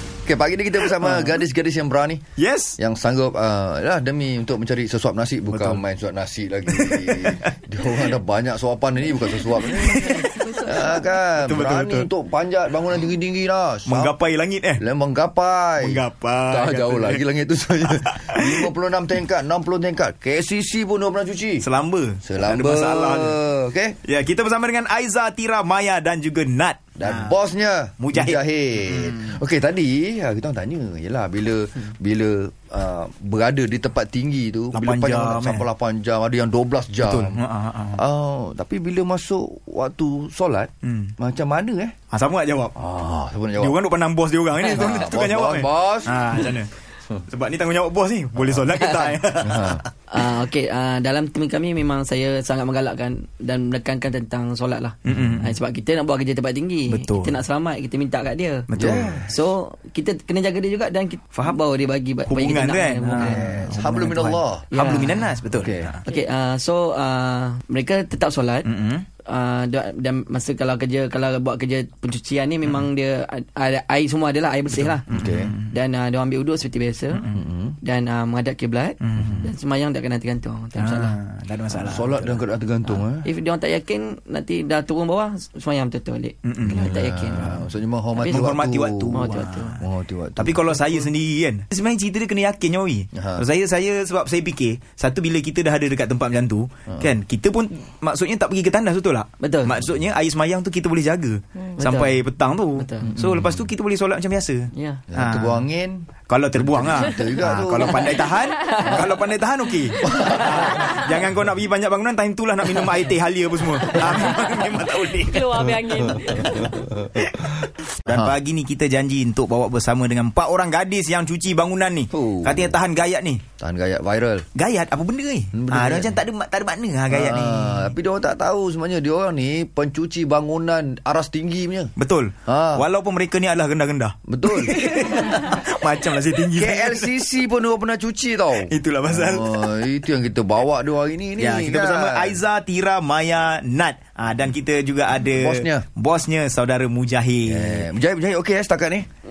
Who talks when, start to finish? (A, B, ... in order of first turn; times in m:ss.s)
0:00.2-0:02.2 A
0:01.0-0:01.3 B
0:02.4-0:02.8 B
0:02.8-0:14.1 A
0:05.5-0:05.8 B
0:06.7-0:07.5 B
0:09.8-0:10.4 B
0:10.4-0:11.0 C
0:11.4-0:12.1 B
0:13.9-0:14.8 B
0:14.8-0:21.6 A
0:15.8-0:17.2 B
0:17.9-0:18.7 B
0:21.6-0:23.4 B
0:22.2-0:24.0 A
0:24.0-0:27.4 B
0:27.0-0:37.4 A
0:28.0-0:29.2 B
0:34.7-0:35.6 B
0:37.0-0:38.0 B
0:37.9-0:41.9 A
0:40.8-0:41.1 B
0:42.1-0:42.7 B
0:42.8-0:43.8 A
0:43.6-0:46.7 B
0:44.6-0:46.2 A
0:47.3-0:49.8 B
0:49.4-0:49.8 A
0:50.1-0:58.7 D
0:55.0-0:55.5 B
0:56.9-0:57.3 B
0:58.7-0:59.2 B
0:58.7-0:59.3 A
0:59.3-1:03.4 D
1:02.3-1:06.0 B
1:03.1-1:04.7 A
1:04.7-1:05.4 D
1:05.5-1:05.9 A
1:06.0-1:08.7 D
1:08.6-1:09.0 B
1:09.2-1:15.0 D
1:14.8-1:15.7 B
1:15.1-1:15.5 A
1:15.7-1:17.3 D
1:17.3-1:17.8 A
1:17.8-1:21.2 D
1:19.0-1:19.4 B
1:20.8-1:22.4 B
1:21.9-1:23.3 A
1:22.8-1:27.6 D
1:26.4-1:26.8 B
1:26.6-1:30.7 A
1:28.2-1:28.5 D
1:28.3-1:29.8 B
1:29.1-1:29.8 D
1:30.4-1:45.6 B
1:33.1-1:33.4 A
1:39.4-1:39.8 D
1:41.8-1:43.1 D
1:43.1-1:43.5 A
1:44.7-1:45.0 D
1:45.1-1:48.1 A
1:46.3-1:55.6 B
1:50.0-1:50.5 A
1:55.2-1:56.8 C
1:56.5-1:57.4 A
1:58.1-1:58.3 A
1:58.1-2:03.4 B
2:02.1-2:02.8 A
2:03.6-2:04.4 A
2:04.6-2:07.9 B
2:05.5-2:06.2 A
2:07.1-2:11.9 A
2:12.0-2:17.0 B
2:12.5-2:12.9 A
2:14.3-2:14.8 A
2:16.6-2:22.4 A
2:18.7-2:19.7 B
2:21.4-2:27.9 B
2:25.4-2:25.8 A
2:27.4-2:29.1 A